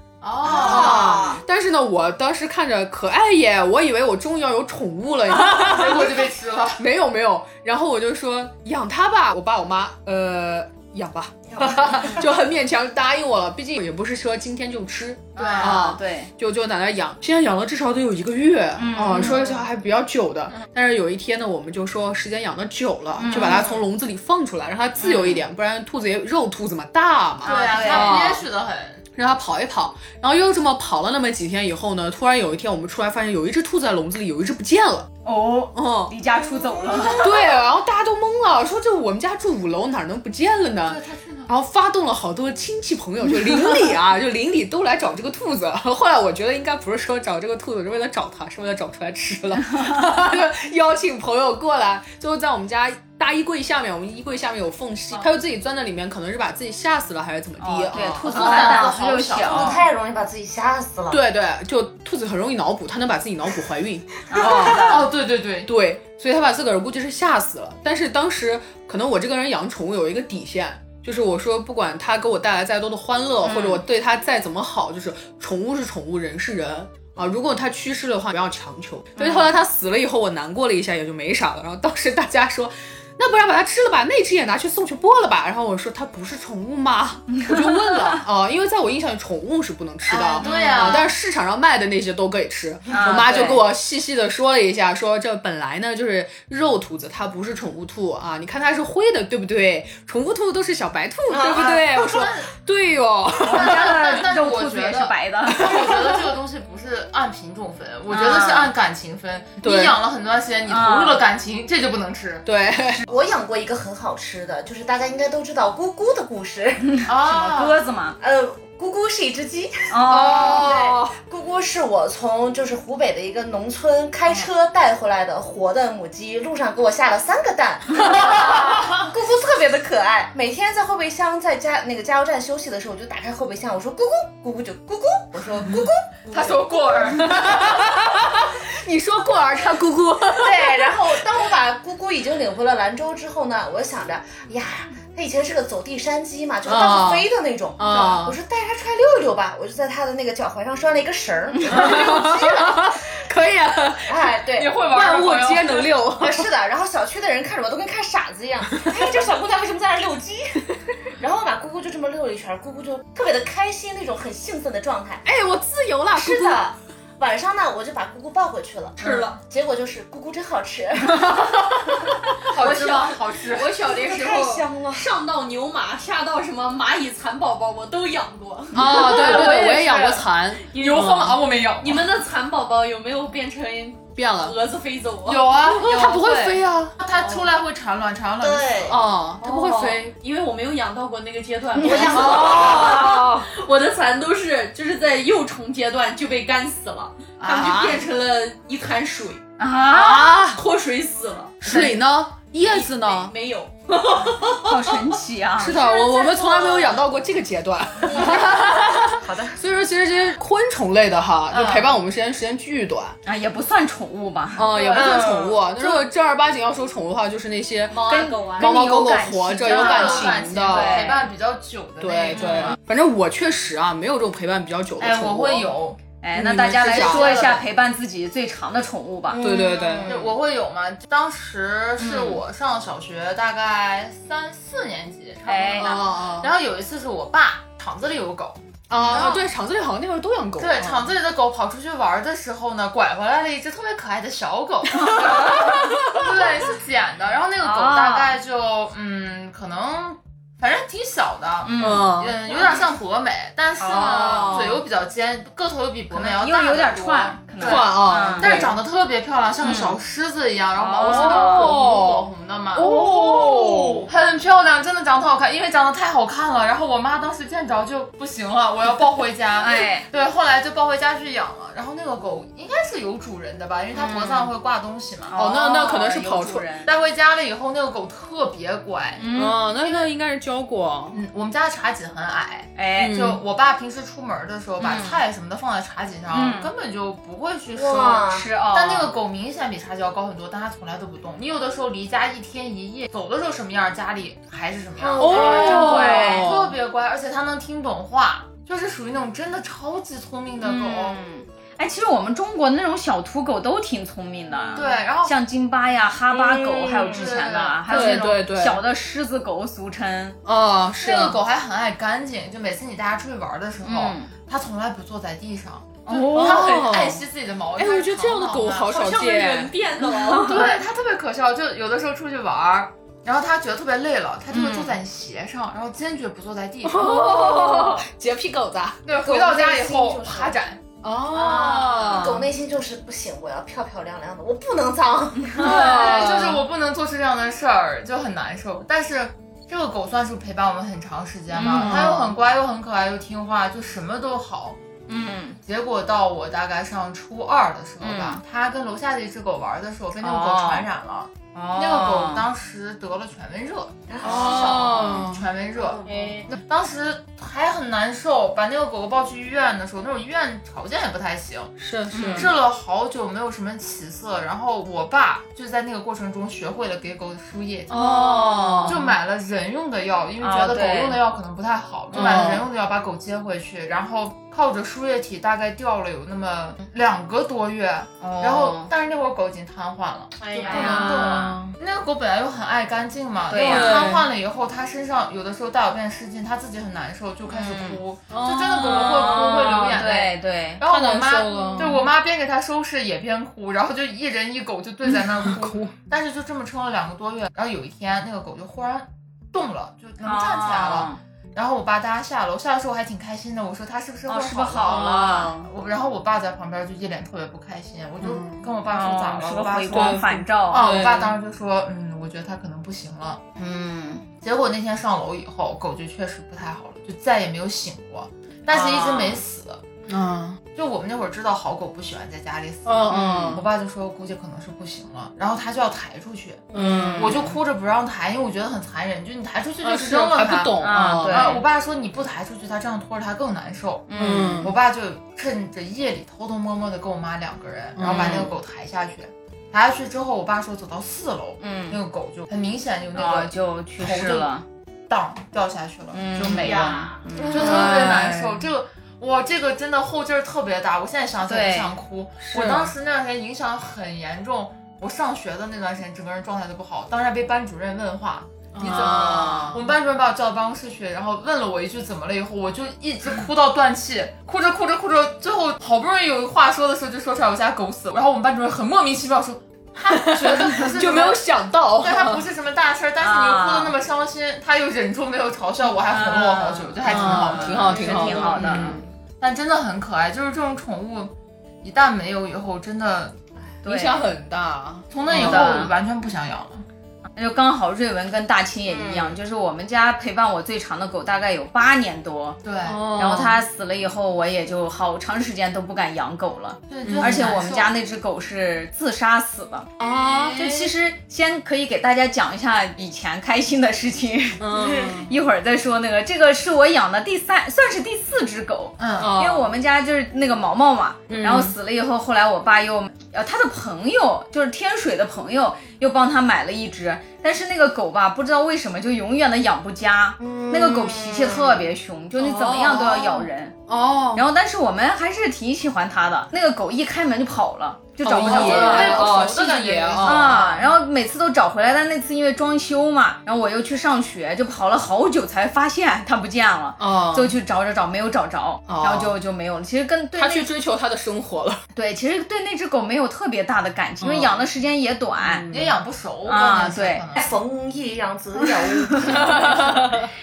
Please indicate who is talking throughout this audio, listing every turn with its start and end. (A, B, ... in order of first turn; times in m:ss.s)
0:00.2-0:01.1 A
0:00.5-0:01.4 B
0:00.5-0:28.4 C
0:05.3-0:06.8 A
0:11.6-0:12.0 B
0:15.4-0:16.3 D
0:15.4-0:15.8 A
0:18.8-0:19.4 D
0:19.2-0:19.5 A
0:23.2-0:23.7 D
0:23.3-0:23.7 A
0:25.0-0:25.4 D
0:27.4-0:29.0 A
0:27.4-0:28.2 D
0:29.2-0:35.1 C
0:35.2-0:37.4 D
0:35.7-0:36.1 C
0:37.0-0:58.8 C
0:40.8-0:41.5 A
0:57.6-0:59.8 D
0:58.3-0:59.8 A
0:58.4-1:01.2 B
1:01.1-1:05.1 C
1:04.3-1:05.1 D
1:04.5-1:05.7 A
1:05.6-1:44.2 C
1:13.4-1:13.8 D
1:19.2-1:19.6 D
1:27.3-1:28.2 D
1:30.1-1:31.1 A
1:30.4-1:31.1 D
1:32.9-1:33.6 D
1:41.3-1:41.9 B
1:41.6-1:42.5 A
1:43.4-1:46.0 D
1:43.4-1:52.5 A
1:45.8-1:46.1 C
1:48.1-1:48.7 D
1:49.6-1:50.0 C
1:50.7-1:51.2 D
1:52.4-1:53.0 C
1:53.1-1:57.1 B
1:57.0-1:58.2 D
1:57.1-1:57.8 A
1:58.2-2:16.6 B
1:59.9-2:00.7 D
2:00.1-2:01.2 C
2:08.6-2:08.9 A
2:16.3-2:17.6 A
2:17.2-2:20.9 C
2:20.3-2:33.0 B
2:26.6-2:28.4 C
2:31.7-2:36.5 C
2:34.1-2:34.8 B
2:34.6-2:35.9 A
2:36.2-2:45.3 B
2:45.2-2:46.6 C
2:46.1-2:51.7 B
2:49.0-2:49.4 E
2:49.0-2:49.4 A
2:51.9-3:00.0 E
2:52.5-2:53.8 A
2:53.8-2:55.1 B
2:58.7-3:01.4 C
2:58.9-3:00.2 A
3:00.7-3:01.2 E
3:00.8-3:02.1 A
3:01.8-3:05.8 E
3:04.2-3:04.6 C
3:05.3-3:09.0 A
3:05.7-3:07.0 C
3:07.1-3:07.4 E
3:08.4-3:09.0 B
3:08.9-3:10.1 C
3:09.4-3:19.4 E
3:11.8-3:12.6 B
3:12.0-3:13.5 C
3:17.4-3:17.8 A
3:17.5-3:18.0 C
3:19.6-3:20.4 D
3:19.9-3:20.6 C
3:20.5-3:21.9 E
3:21.6-3:23.3 C
3:22.6-3:24.6 E
3:24.6-3:25.8 D
3:25.6-3:33.2 C
3:26.0-3:26.9 B
3:29.1-3:29.6 B
3:31.5-3:32.0 A
3:33.2-3:34.7 D
3:34.6-3:41.1 C
3:34.6-3:35.3 A
3:37.9-3:38.8 E
3:38.1-3:41.3 D
3:39.7-3:42.8 A
3:42.0-3:45.7 C
3:42.4-3:42.8 D
3:45.0-3:46.0 A
3:46.2-3:49.4 D
3:46.3-3:47.5 C
3:46.9-3:47.7 A
3:49.3-3:50.3 B
3:49.4-3:50.1 C
3:50.1-3:59.4 A
3:52.0-3:52.4 D
3:55.5-3:56.0 D
3:55.8-3:56.5 C
3:58.9-4:01.1 C
4:00.6-4:23.4 A
4:05.0-4:05.6 D
4:07.6-4:08.4 D
4:11.6-4:12.1 D
4:11.8-4:12.4 C
4:13.8-4:14.6 D
4:13.8-4:14.8 C
4:16.1-4:18.6 D
4:17.6-4:18.8 C
4:19.6-4:20.0 D
4:20.8-4:21.7 D
4:21.0-4:24.1 C
4:22.8-4:23.9 D
4:24.1-4:35.4 A
4:29.6-4:30.1 D
4:33.9-4:34.5 D
4:35.3-4:36.9 D
4:35.4-4:36.7 C
4:36.8-4:39.2 A
4:39.2-4:39.6 D
4:39.3-4:41.2 C
4:41.1-5:01.2 A
4:42.8-4:43.2 D
4:43.0-4:43.4 C
4:44.8-4:45.2 D
4:46.3-4:46.7 D
4:47.8-4:48.5 B
4:48.3-4:49.1 D
4:55.0-4:55.8 B
4:55.2-4:56.8 C
4:55.3-4:56.5 D
5:00.6-5:10.4 D
5:04.8-5:05.3 A
5:06.8-5:08.5 A
5:07.9-5:08.8 C
5:10.4-5:11.4 C
5:11.0-5:18.9 A
5:13.8-5:14.3 D
5:16.1-5:16.9 D
5:16.3-5:17.2 C
5:17.8-5:19.7 C
5:18.9-5:20.8 E
5:20.2-5:20.7 D
5:20.4-5:27.2 A
5:24.5-5:25.0 D
5:26.8-5:29.0 C
5:27.6-5:27.9 D
5:29.1-5:30.8 A
5:29.2-5:30.6 B
5:31.0-5:32.5 C
5:31.3-5:36.0 B
5:35.6-5:36.6 C
5:35.6-5:44.8 A
5:41.5-5:42.1 D
5:41.8-5:42.4 C
5:45.1-5:45.6 D
5:45.7-6:01.7 A
5:48.0-5:48.4 D
5:50.2-5:50.9 D
5:51.5-5:52.5 D
5:54.1-5:54.9 B
5:54.2-5:55.5 C
5:56.1-5:56.4 E
6:01.8-6:02.6 C
6:02.1-6:02.5 D
6:02.3-6:08.0 A
6:07.9-6:09.2 C
6:08.0-6:09.0 D
6:08.8-6:53.4 A
6:10.4-6:11.2 D
6:12.1-6:12.7 C
6:12.2-6:12.5 D
6:18.2-6:18.9 D
6:20.4-6:21.0 E
6:20.6-6:21.4 D
6:20.7-6:21.8 C
6:23.5-6:24.2 D
6:23.6-6:24.3 C
6:27.5-6:28.0 D
6:28.3-6:29.6 C
6:28.8-6:30.8 D
6:30.8-6:32.0 C
6:31.6-6:32.0 D
6:35.1-6:35.9 C
6:40.2-6:41.2 D
6:44.3-6:45.6 D
6:44.9-6:45.6 C
6:48.2-6:48.7 C
6:48.9-6:50.9 D
6:49.9-6:51.4 C
6:53.6-6:54.2 D
6:54.4-6:59.8 A
6:58.7-6:59.4 D
7:00.1-7:00.6 C
7:00.7-7:24.5 A
7:02.9-7:03.7 C
7:03.1-7:03.6 D
7:06.7-7:07.6 C
7:06.7-7:07.5 D
7:09.8-7:11.6 C
7:10.8-7:11.6 D
7:14.1-7:14.7 D
7:14.2-7:14.8 C
7:18.0-7:18.6 C
7:18.1-7:18.4 D
7:21.6-7:22.0 D
7:23.2-7:24.6 D
7:25.1-7:51.4 A
7:26.1-7:28.1 D
7:26.6-7:27.2 E
7:27.5-7:28.7 C
7:31.5-7:31.9 D
7:32.4-7:32.9 C
7:38.8-7:39.8 C
7:39.0-7:39.8 D
7:50.1-7:52.5 C
7:52.0-8:03.4 A
7:53.2-7:54.0 D
7:55.9-7:59.0 D
7:57.0-7:59.1 C
8:03.8-8:04.3 D
8:03.8-8:05.7 C
8:05.1-8:06.8 A
8:05.3-8:05.9 D
8:07.4-8:12.6 D
8:12.6-8:13.1 A
8:12.8-8:13.6 C
8:13.2-8:19.9 D
8:16.9-8:18.0 A
8:17.0-8:17.6 C
8:20.0-8:20.9 C
8:20.6-8:43.8 D
8:24.6-8:25.3 C
8:29.0-8:29.3 A
8:29.2-8:29.7 C
8:31.3-8:31.8 C
8:40.4-8:41.7 C
8:42.4-8:44.5 C
8:44.3-8:49.4 D
8:48.2-8:50.8 C
8:48.3-8:50.8 A
8:50.2-9:00.7 D
8:57.0-8:57.6 C
8:58.9-8:59.4 C
9:00.4-9:01.8 C
9:02.0-9:05.7 D
9:04.2-9:04.6 C
9:05.4-9:06.0 C
9:05.7-9:07.5 A
9:06.4-9:07.2 D
9:07.3-9:09.9 B
9:09.1-9:09.7 D
9:09.6-9:10.1 C